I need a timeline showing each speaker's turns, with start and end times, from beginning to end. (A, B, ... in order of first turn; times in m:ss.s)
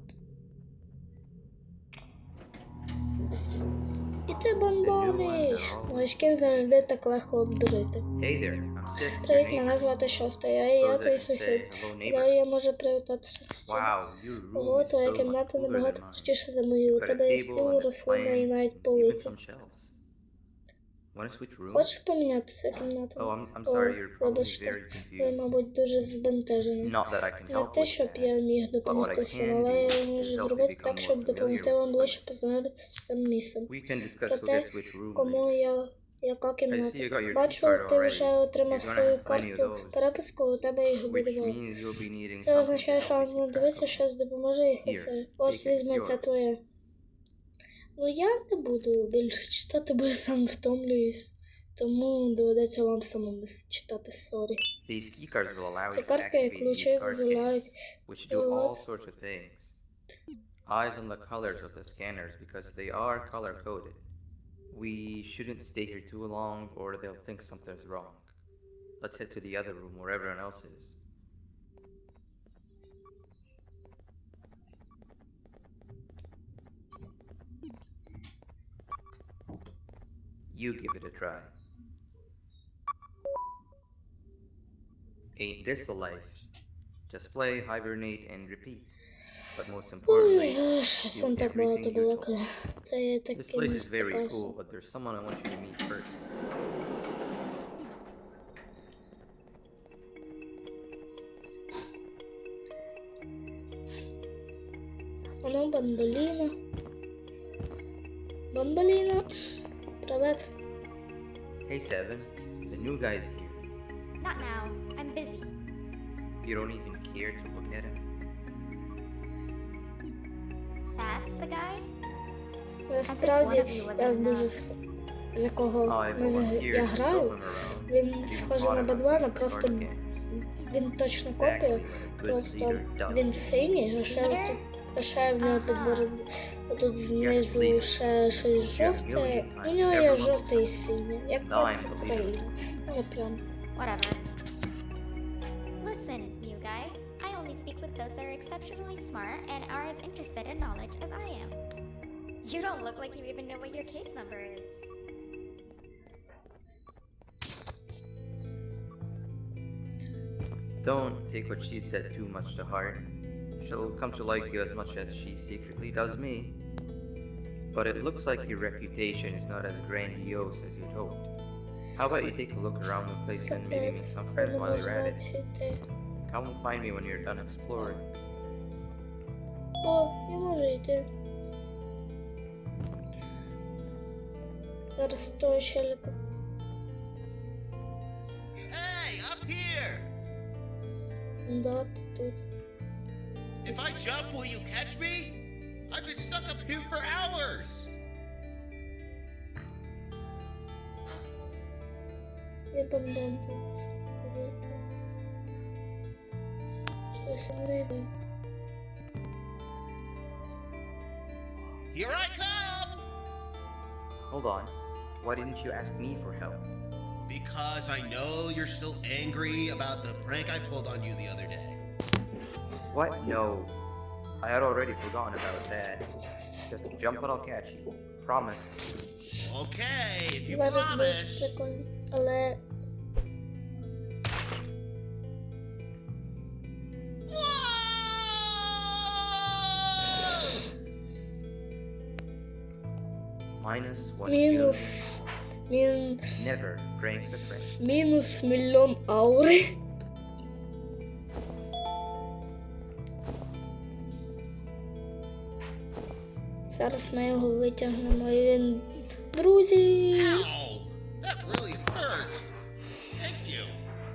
0:04.3-0:08.0 A
0:04.8-0:06.1 B
0:08.2-0:10.0 B
0:09.2-0:14.0 A
0:10.8-0:12.3 B
0:13.6-0:16.3 B
0:14.6-0:19.3 A
0:16.9-0:19.9 B
0:21.1-0:21.9 B
0:21.7-0:26.9 A
0:23.2-0:25.4 B
0:26.8-0:28.3 B
0:27.5-0:33.7 A
0:28.8-0:32.2 B
0:33.7-0:35.5 B
0:34.3-0:41.6 A
0:36.7-0:40.0 B
0:41.1-0:44.0 B
0:42.4-0:46.6 A
0:44.8-0:46.2 B
0:48.0-0:54.6 A
0:54.9-0:57.5 B
0:55.9-0:57.7 A
0:58.1-0:59.7 B
0:58.3-0:58.8 A
1:00.7-1:04.1 B
1:04.7-1:08.3 B
1:09.0-1:11.0 B
1:20.5-1:21.5 B
1:25.4-1:26.4 B
1:27.1-1:28.9 B
1:29.6-1:32.3 B
1:30.1-1:34.5 A
1:33.3-1:36.2 B
1:45.4-1:46.5 A
1:48.5-1:49.3 A
1:50.0-1:50.5 A
1:51.7-1:53.7 B
1:54.2-1:55.5 C
1:56.4-1:58.0 B
2:01.0-2:01.9 C
2:02.9-2:04.6 A
2:03.1-2:04.6 C
2:05.3-2:09.9 A
2:05.8-2:10.2 B
2:10.4-2:23.4 A
2:11.4-2:13.7 B
2:14.1-2:14.6 C
2:15.4-2:16.1 C
2:17.1-2:20.7 B
2:21.4-2:22.5 B
2:23.8-2:24.2 C
2:25.8-2:31.6 C
2:32.4-2:34.8 C
2:40.8-2:43.0 B
2:43.6-2:46.6 B
2:47.7-2:51.3 B
2:52.0-2:55.2 B
2:53.5-2:55.8 A
2:56.3-2:58.0 B
2:59.8-3:01.1 A
3:05.0-3:06.1 A
3:08.7-3:10.1 D
3:11.5-3:12.4 A
3:13.6-3:15.4 D
3:13.7-3:14.0 A
3:15.9-3:17.9 D
3:22.7-3:24.8 A
3:27.1-3:28.1 A
3:31.9-3:33.0 D
3:34.3-3:36.7 B
3:37.3-3:41.8 D
3:42.9-3:43.8 B
3:44.4-3:46.1 B
3:46.7-3:48.7 B
3:49.4-3:51.5 D
3:50.5-3:52.6 A
3:57.3-4:00.6 D
4:03.6-4:05.2 B
4:04.3-4:06.2 A
4:06.3-4:07.8 B
4:07.8-4:09.7 A
4:16.7-4:20.5 A
4:20.1-4:22.5 D
4:23.2-4:23.8 D